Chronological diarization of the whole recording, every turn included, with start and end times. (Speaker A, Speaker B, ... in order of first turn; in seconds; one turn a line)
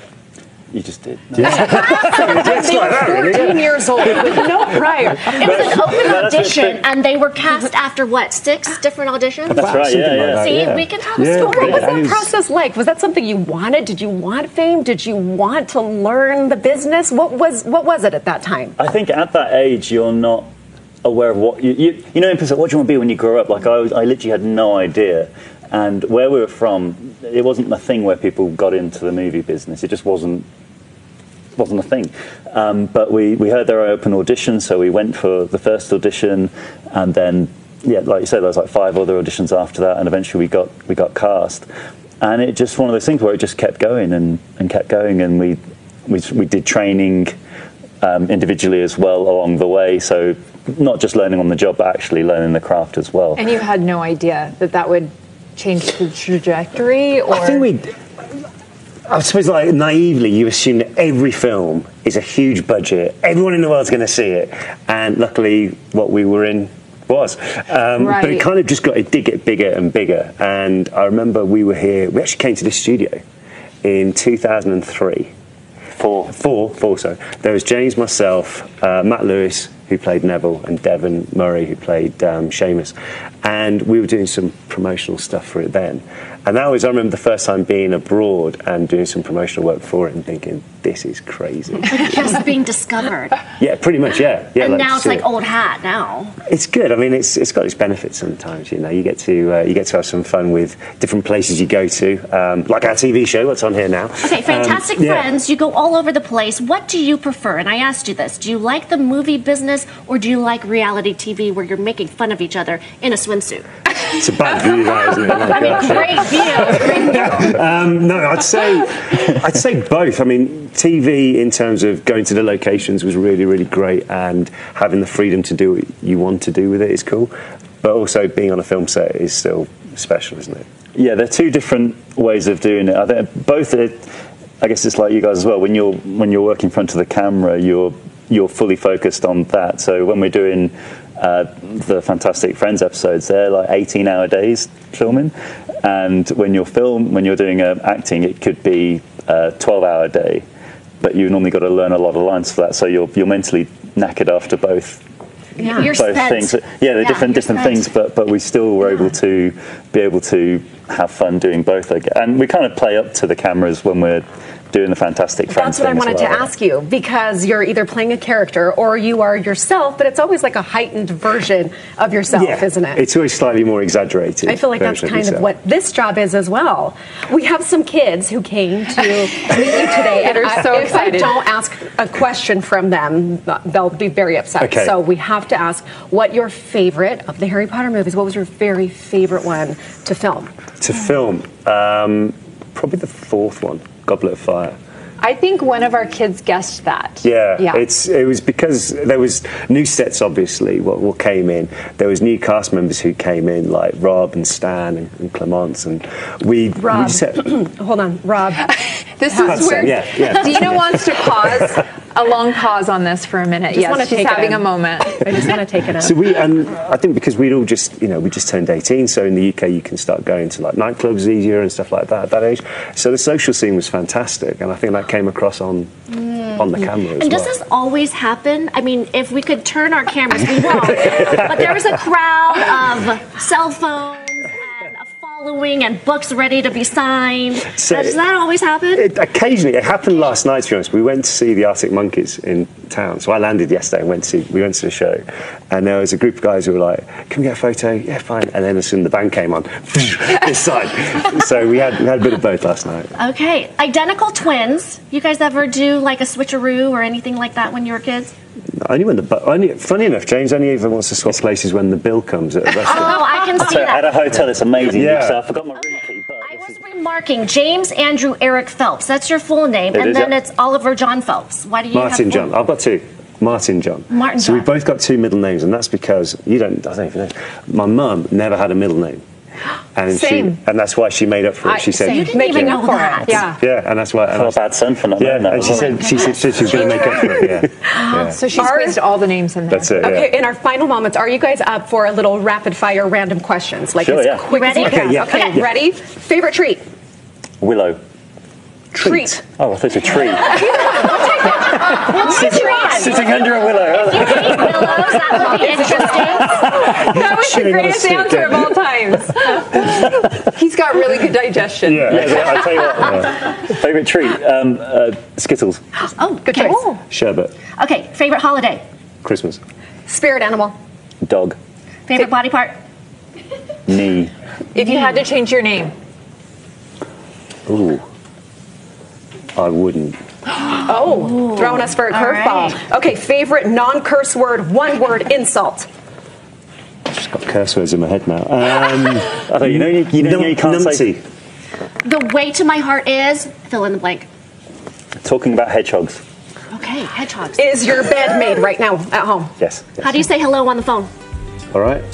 Speaker A: 0.7-2.4
Speaker B: 1.4-4.6
Speaker C: 1.5-5.9
Speaker A: 5.3-6.8
Speaker D: 5.3-9.7
Speaker B: 9.5-12.3
Speaker A: 9.5-10.6
Speaker D: 10.3-12.0
Speaker C: 11.3-18.7
Speaker A: 18.8-20.5
Speaker A: 21.0-30.5
Speaker A: 31.6-41.7
Speaker A: 42.2-47.3
Speaker A: 48.0-53.4
Speaker E: 53.4-57.7
Speaker B: 57.3-57.9
Speaker B: 59.1-73.2
Speaker E: 68.0-68.4
Speaker B: 73.8-75.3
Speaker A: 76.0-76.3
Speaker B: 76.3-92.1
Speaker D: 91.9-93.4
Speaker B: 93.6-95.2
Speaker D: 94.6-96.4
Speaker B: 96.5-105.3
Speaker D: 104.2-113.7
Speaker B: 114.1-130.7
Speaker D: 115.3-117.5
Speaker A: 130.9-134.1
Speaker A: 134.6-150.4
Speaker A: 151.0-155.0
Speaker C: 155.6-155.9
Speaker D: 155.6-157.9
Speaker A: 155.8-166.5
Speaker C: 165.5-173.0
Speaker B: 172.3-175.5
Speaker C: 174.5-190.5
Speaker E: 179.5-181.4
Speaker B: 184.6-185.0
Speaker B: 190.8-194.8
Speaker E: 195.2-197.8
Speaker B: 197.2-207.4
Speaker C: 206.8-210.0
Speaker E: 209.2-215.5
Speaker B: 209.5-211.5
Speaker C: 213.7-216.2
Speaker B: 216.0-227.5
Speaker D: 226.1-239.1
Speaker B: 237.7-238.2
Speaker B: 238.9-253.1
Speaker D: 253.2-258.3
Speaker B: 258.8-263.3
Speaker D: 262.9-264.2
Speaker A: 263.6-266.7
Speaker B: 264.9-265.4
Speaker D: 265.8-272.5
Speaker A: 269.9-270.4
Speaker B: 271.9-279.2
Speaker D: 274.1-274.7
Speaker B: 279.9-284.6
Speaker E: 280.1-280.5
Speaker C: 281.6-283.5
Speaker D: 282.1-283.4
Speaker E: 283.2-283.6
Speaker A: 284.3-286.1
Speaker B: 285.1-288.5
Speaker D: 285.6-287.5
Speaker C: 286.7-289.0
Speaker E: 288.2-290.1
Speaker B: 289.7-290.3
Speaker C: 290.0-296.8
Speaker A: 294.0-294.5
Speaker D: 294.5-295.6
Speaker B: 294.8-295.7
Speaker A: 297.6-298.0
Speaker C: 298.9-299.4
Speaker B: 299.0-299.3
Speaker A: 299.6-300.9
Speaker C: 300.5-303.2
Speaker D: 300.8-306.7
Speaker A: 302.1-305.4
Speaker C: 305.3-306.2
Speaker E: 305.5-306.1
Speaker E: 306.6-312.8
Speaker B: 306.9-308.8
Speaker B: 311.8-313.2
Speaker A: 312.1-315.8
Speaker D: 316.2-317.0
Speaker C: 316.5-316.8
Speaker B: 317.1-317.5
Speaker D: 317.8-318.8
Speaker B: 319.2-319.6
Speaker C: 320.1-320.8
Speaker A: 321.2-321.6
Speaker D: 322.1-322.8
Speaker A: 323.9-324.3
Speaker E: 324.7-325.9
Speaker B: 327.7-328.0
Speaker B: 329.6-330.2
Speaker C: 330.7-335.9
Speaker D: 331.1-332.8
Speaker B: 337.1-341.2
Speaker A: 339.5-341.1
Speaker D: 342.0-344.3
Speaker A: 345.2-346.2
Speaker D: 346.7-347.7
Speaker C: 347.6-349.5
Speaker A: 349.6-349.9
Speaker D: 350.0-351.1
Speaker B: 351.7-352.1